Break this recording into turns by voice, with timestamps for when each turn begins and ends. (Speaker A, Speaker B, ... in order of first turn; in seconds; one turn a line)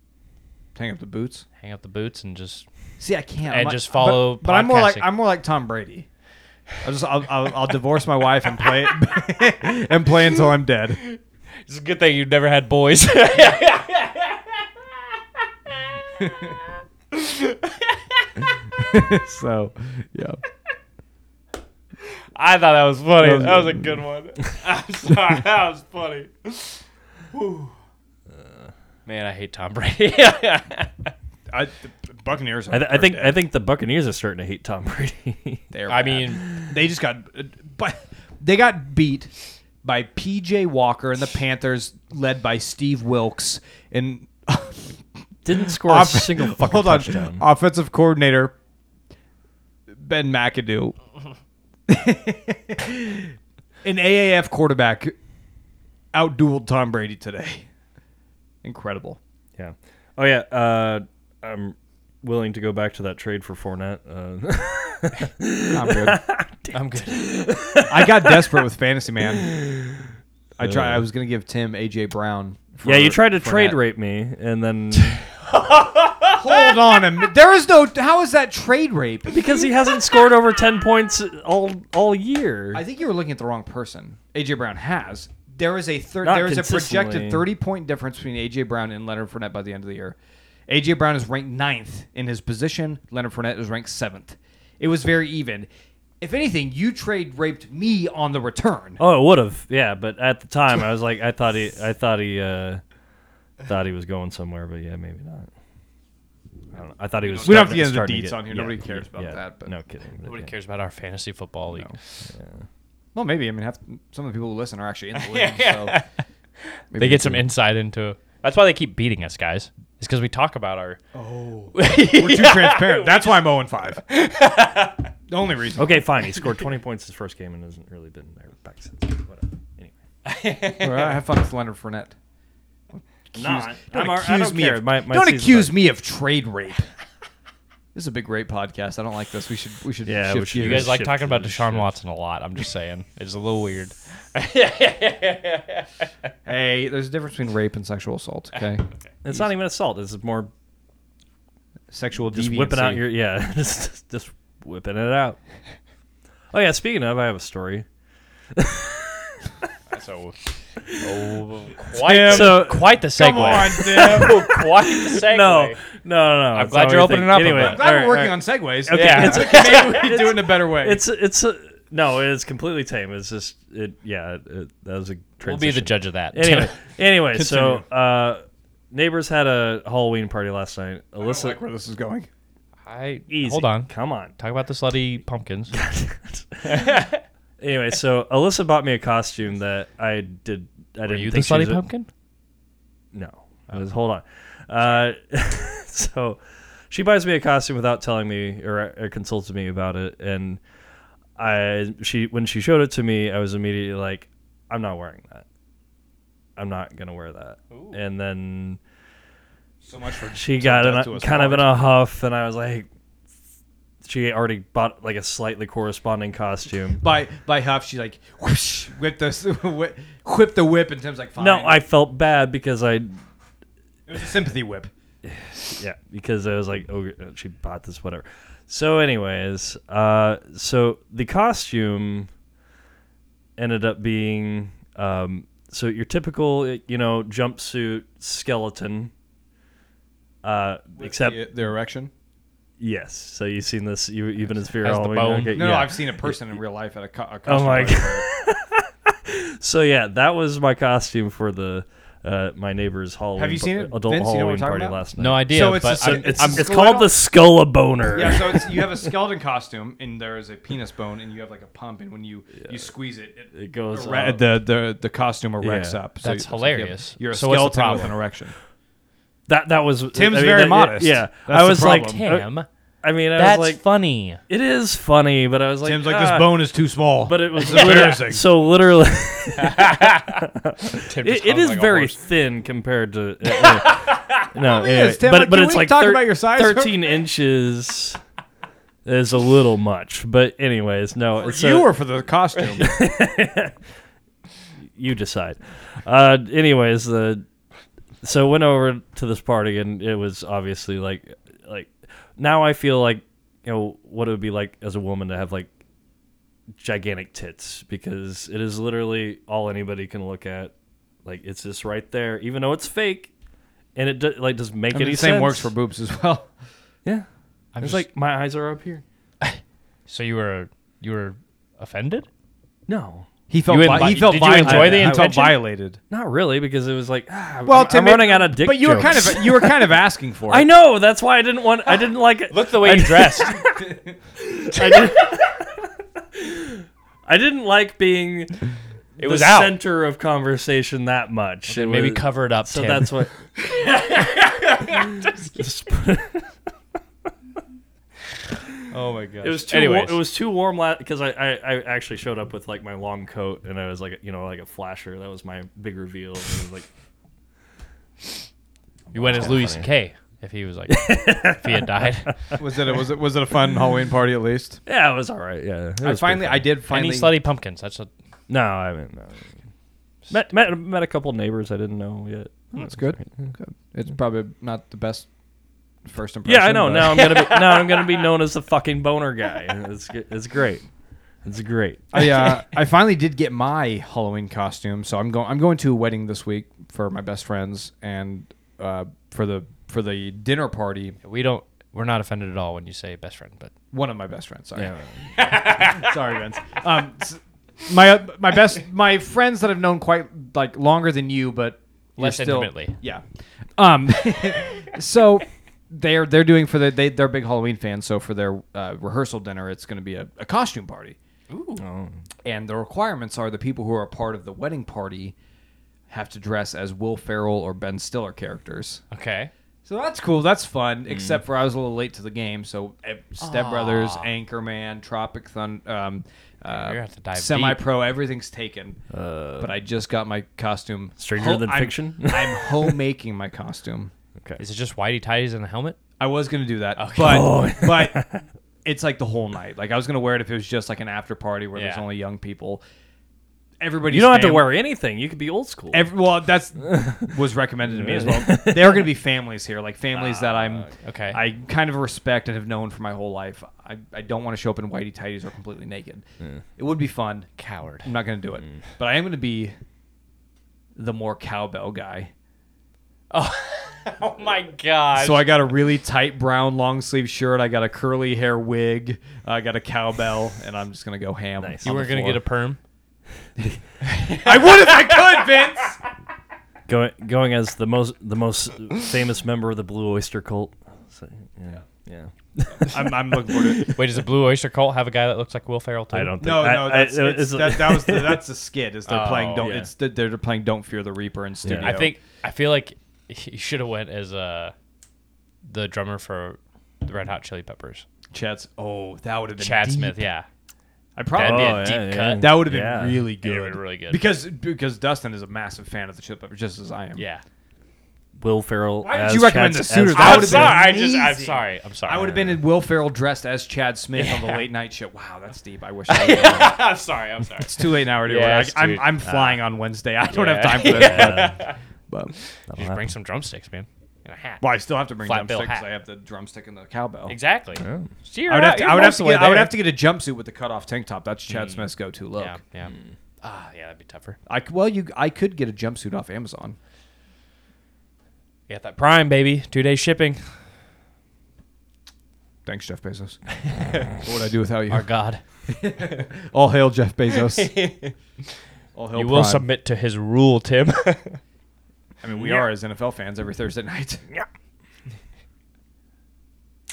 Speaker A: 0.8-1.5
Speaker B: 1.6-2.6
Speaker A: 3.0-6.1
Speaker B: 3.5-5.1
Speaker A: 6.8-11.0
Speaker B: 11.0-14.6
Speaker B: 15.7-16.6
Speaker B: 17.1-18.4
Speaker A: 18.8-20.4
Speaker B: 22.4-27.7
Speaker A: 23.2-24.0
Speaker C: 28.3-28.7
Speaker B: 29.1-31.1
Speaker A: 31.5-33.4
Speaker C: 32.7-35.6
Speaker A: 35.7-45.0
Speaker B: 35.9-36.5
Speaker C: 45.5-47.4
Speaker A: 45.5-48.5
Speaker A: 50.0-51.0
Speaker A: 51.9-55.1
Speaker A: 56.1-57.6
Speaker A: 58.6-59.2
Speaker C: 59.6-68.6
Speaker A: 65.7-66.2
Speaker B: 66.7-67.3
Speaker A: 67.8-69.5
Speaker C: 69.2-70.1
Speaker A: 70.6-73.8
Speaker C: 70.6-71.0
Speaker C: 72.8-75.2
Speaker B: 75.0-76.8
Speaker A: 76.3-79.3
Speaker C: 79.3-82.8
Speaker A: 82.7-90.2
Speaker C: 86.2-87.5
Speaker A: 90.7-95.7
Speaker A: 96.2-99.0
Speaker C: 99.0-102.8
Speaker C: 103.7-105.5
Speaker C: 106.7-110.5
Speaker B: 107.2-107.8
Speaker A: 107.4-109.7
Speaker B: 110.2-112.0
Speaker C: 112.3-112.7
Speaker A: 113.1-116.0
Speaker B: 115.2-116.1
Speaker A: 116.9-117.4
Speaker B: 116.9-121.0
Speaker A: 121.1-124.0
Speaker B: 121.8-123.4
Speaker B: 124.0-125.1
Speaker A: 125.3-126.1
Speaker C: 125.8-129.9
Speaker B: 130.2-131.2
Speaker A: 130.8-132.1
Speaker A: 132.9-136.9
Speaker C: 133.3-135.8
Speaker A: 137.9-140.9
Speaker C: 140.1-141.9
Speaker B: 140.6-145.9
Speaker A: 146.5-149.5
Speaker C: 149.2-150.5
Speaker A: 151.9-153.0
Speaker C: 152.3-155.4
Speaker C: 156.5-157.9
Speaker C: 158.5-159.4
Speaker B: 159.9-160.4
Speaker B: 161.0-165.8
Speaker A: 161.9-164.6
Speaker C: 162.2-181.6
Speaker B: 166.5-167.8
Speaker A: 167.6-171.0
Speaker B: 168.9-170.0
Speaker B: 175.4-176.8
Speaker A: 177.3-177.8
Speaker A: 181.2-182.3
Speaker B: 182.9-185.8
Speaker C: 183.3-184.3
Speaker C: 185.7-187.0
Speaker B: 186.7-187.2
Speaker C: 187.6-191.8
Speaker B: 191.1-192.1
Speaker C: 193.1-200.6
Speaker C: 201.4-205.4
Speaker C: 206.6-208.8
Speaker B: 207.7-208.0
Speaker A: 209.8-211.8
Speaker C: 210.3-212.9
Speaker C: 214.0-217.0
Speaker A: 217.0-221.8
Speaker C: 221.4-223.2
Speaker A: 224.1-224.9
Speaker C: 225.2-232.3
Speaker C: 233.6-239.1
Speaker C: 240.4-241.4
Speaker A: 241.0-242.1
Speaker C: 242.8-246.6
Speaker B: 244.8-245.9
Speaker A: 245.5-248.3
Speaker C: 247.5-259.1
Speaker A: 253.4-257.1
Speaker B: 255.2-256.6
Speaker A: 258.1-268.6
Speaker C: 263.5-264.5
Speaker C: 265.6-266.0
Speaker B: 266.2-268.1
Speaker C: 269.5-272.5
Speaker A: 270.1-272.2
Speaker B: 271.7-272.7
Speaker C: 273.0-273.8
Speaker B: 273.4-274.4
Speaker C: 274.5-276.7
Speaker A: 275.8-278.4
Speaker C: 277.2-288.2
Speaker B: 279.6-280.4
Speaker B: 281.0-282.2
Speaker B: 283.5-284.5
Speaker A: 284.6-287.0
Speaker C: 289.1-291.9
Speaker A: 291.4-292.9
Speaker C: 292.7-293.8
Speaker C: 294.9-297.4
Speaker C: 298.2-305.7
Speaker C: 306.8-310.7
Speaker C: 311.2-313.3
Speaker C: 313.9-315.7
Speaker A: 314.9-316.5
Speaker B: 317.7-318.1
Speaker C: 317.8-319.0
Speaker B: 319.4-322.3
Speaker C: 322.9-323.3
Speaker A: 323.5-326.0
Speaker B: 323.7-325.6
Speaker C: 323.8-325.4
Speaker C: 326.1-338.6
Speaker A: 327.6-330.7
Speaker B: 332.5-333.6
Speaker B: 334.9-335.2
Speaker C: 339.2-343.4
Speaker B: 339.2-339.8
Speaker B: 341.7-345.5
Speaker C: 344.9-346.6
Speaker B: 348.9-350.2
Speaker C: 349.4-356.9
Speaker C: 359.1-359.9
Speaker B: 359.1-362.5
Speaker C: 360.9-362.6
Speaker A: 362.6-364.8
Speaker C: 364.9-366.7
Speaker A: 366.0-367.4
Speaker B: 366.9-368.1
Speaker C: 368.5-369.6
Speaker C: 370.3-373.5
Speaker A: 372.7-375.3
Speaker A: 376.1-377.4
Speaker C: 376.5-380.9
Speaker B: 377.2-377.8
Speaker C: 381.4-382.2
Speaker A: 382.1-391.2
Speaker B: 391.2-393.7
Speaker A: 393.9-403.2
Speaker C: 394.8-395.2
Speaker B: 395.4-396.1
Speaker B: 402.2-403.0
Speaker A: 403.8-411.1
Speaker B: 411.5-411.8
Speaker C: 411.8-412.2
Speaker A: 412.4-415.4
Speaker A: 416.1-419.0
Speaker B: 419.1-419.5
Speaker A: 419.9-429.0
Speaker C: 421.1-421.4
Speaker B: 423.4-424.3
Speaker B: 426.7-427.9
Speaker C: 429.1-429.7
Speaker A: 429.6-434.1
Speaker C: 431.2-433.0
Speaker B: 434.6-436.0
Speaker A: 436.2-438.2
Speaker B: 437.0-437.5
Speaker C: 437.2-438.5
Speaker A: 438.9-442.8
Speaker B: 441.8-442.0
Speaker A: 443.8-444.7
Speaker C: 444.1-446.1
Speaker A: 445.9-456.2
Speaker C: 446.8-449.1
Speaker C: 450.1-450.9
Speaker B: 451.0-451.4
Speaker A: 456.8-459.8
Speaker B: 457.6-458.1
Speaker A: 461.0-462.3
Speaker B: 463.3-465.5
Speaker A: 465.1-472.4
Speaker C: 471.6-471.9
Speaker B: 471.8-472.8
Speaker B: 474.0-475.7
Speaker A: 474.3-476.0
Speaker C: 476.9-483.8
Speaker A: 482.9-483.9
Speaker B: 483.8-486.4
Speaker C: 486.1-488.4
Speaker A: 486.4-492.1
Speaker B: 489.1-489.7
Speaker C: 489.6-489.9
Speaker C: 491.6-492.0
Speaker B: 491.7-494.7
Speaker B: 495.6-498.1
Speaker A: 498.3-500.2
Speaker B: 499.6-500.5
Speaker A: 501.1-507.2
Speaker B: 501.3-502.5
Speaker C: 501.4-503.3
Speaker B: 503.4-504.2
Speaker B: 507.1-507.4
Speaker C: 508.4-510.8
Speaker A: 509.0-516.9
Speaker B: 510.1-512.6
Speaker B: 514.1-514.7
Speaker B: 516.1-519.6
Speaker A: 517.6-522.4
Speaker B: 520.3-521.8
Speaker C: 520.9-521.6
Speaker B: 522.4-524.6
Speaker C: 522.7-523.1
Speaker A: 524.6-527.4
Speaker B: 525.2-525.9
Speaker B: 527.3-529.8
Speaker C: 527.8-528.1
Speaker A: 528.5-532.6
Speaker B: 531.5-534.4
Speaker C: 532.9-533.1
Speaker A: 534.5-536.8
Speaker B: 538.7-540.6
Speaker A: 542.6-543.5
Speaker B: 543.7-544.1
Speaker A: 544.1-545.1
Speaker B: 544.9-545.4
Speaker A: 545.6-547.8
Speaker B: 547.4-548.1
Speaker A: 548.9-549.7
Speaker B: 549.1-551.4
Speaker A: 552.2-554.2
Speaker B: 552.4-552.6